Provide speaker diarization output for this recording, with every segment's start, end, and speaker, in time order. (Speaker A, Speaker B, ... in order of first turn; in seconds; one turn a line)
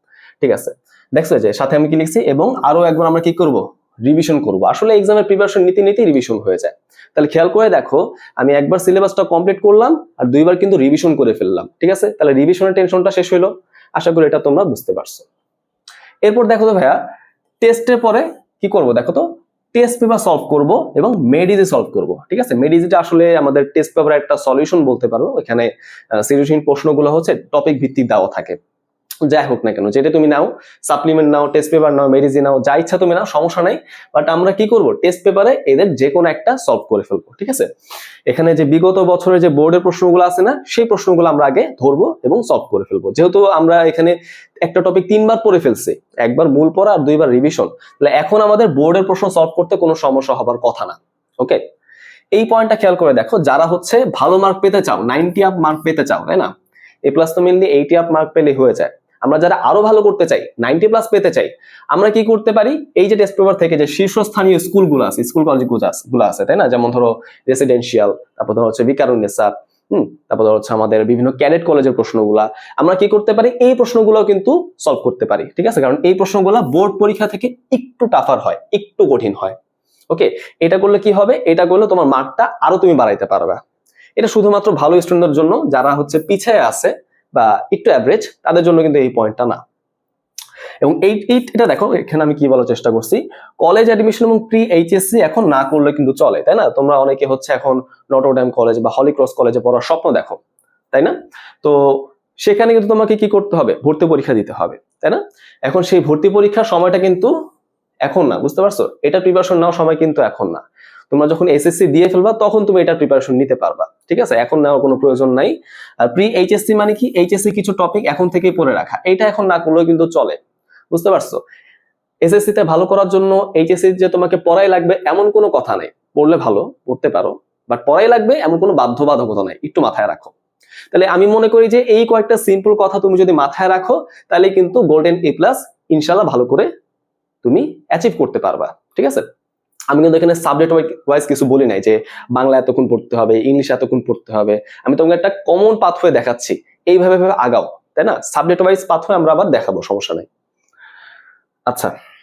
Speaker A: 0.4-15.3
Speaker A: 16.2-17.0
Speaker A: 17.6-28.6
Speaker A: 29.3-37.7
Speaker A: 38.3-51.6
Speaker A: 52.3-56.5
Speaker A: 57.1-79.6
Speaker A: 80.1-83.6
Speaker A: 84.2-89.6
Speaker A: 90.8-100.4
Speaker A: 100.9-107.3
Speaker A: 108.1-120.4
Speaker A: 120.9-121.4
Speaker A: 122.2-130.3
Speaker A: 130.9-136.7
Speaker A: 137.4-139.3
Speaker A: 139.9-150.3
Speaker A: 151.7-151.9